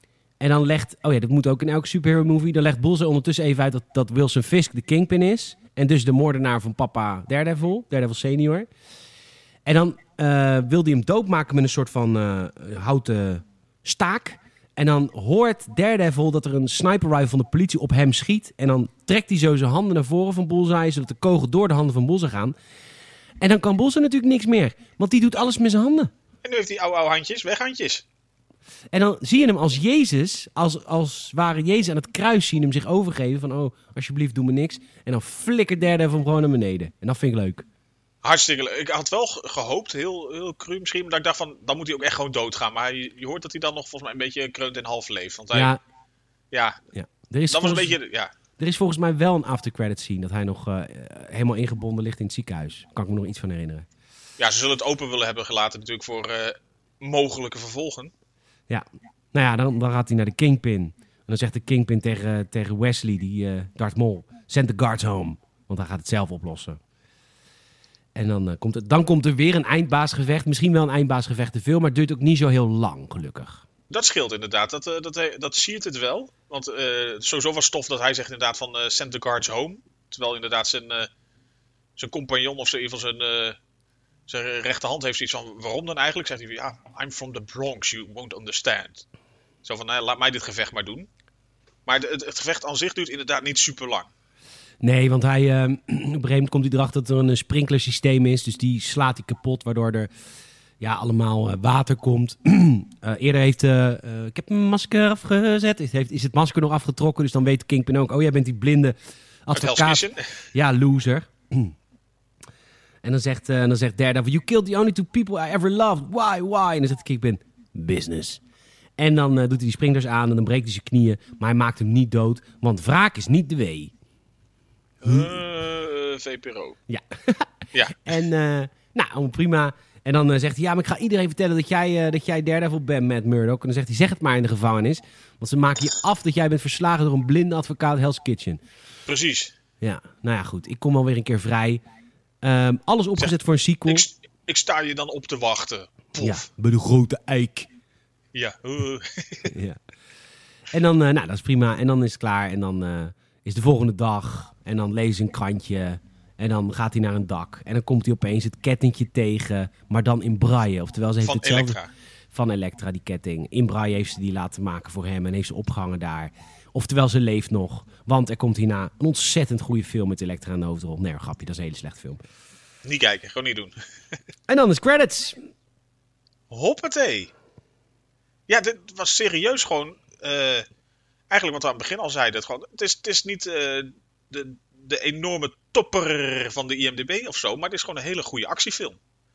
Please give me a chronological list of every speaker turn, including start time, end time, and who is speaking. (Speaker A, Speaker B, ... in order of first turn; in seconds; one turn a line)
Speaker A: 0.4-8.7
Speaker A: 9.6-22.5
Speaker A: 23.4-26.1
Speaker B: 26.4-28.0
Speaker A: 28.9-37.6
Speaker B: 38.2-45.7
Speaker A: 45.5-45.8
Speaker B: 46.5-46.8
Speaker A: 46.9-48.0
Speaker B: 47.5-48.3
Speaker A: 48.6-53.9
Speaker B: 54.4-58.1
Speaker A: 58.7-66.8
Speaker A: 68.1-73.6
Speaker B: 73.9-81.1
Speaker B: 82.0-83.6
Speaker B: 84.3-89.0
Speaker B: 89.6-91.1
Speaker B: 91.8-94.1
Speaker A: 94.8-100.1
Speaker A: 100.8-111.7
Speaker B: 109.5-110.3
Speaker A: 113.0-118.4
Speaker A: 119.0-123.9
Speaker B: 125.0-126.8
Speaker A: 125.0-125.3
Speaker A: 126.9-127.5
Speaker B: 127.7-128.1
Speaker A: 128.0-138.6
Speaker B: 139.1-139.5
Speaker A: 139.8-141.8
Speaker A: 142.4-144.1
Speaker B: 143.9-146.5
Speaker A: 146.2-147.7
Speaker B: 148.3-149.5
Speaker A: 149.5-149.8
Speaker A: 150.7-161.8
Speaker B: 161.2-161.9
Speaker A: 162.3-172.2
Speaker B: 172.8-173.7
Speaker A: 174.5-175.4
Speaker B: 176.5-177.3
Speaker B: 178.5-180.7
Speaker B: 181.3-189.0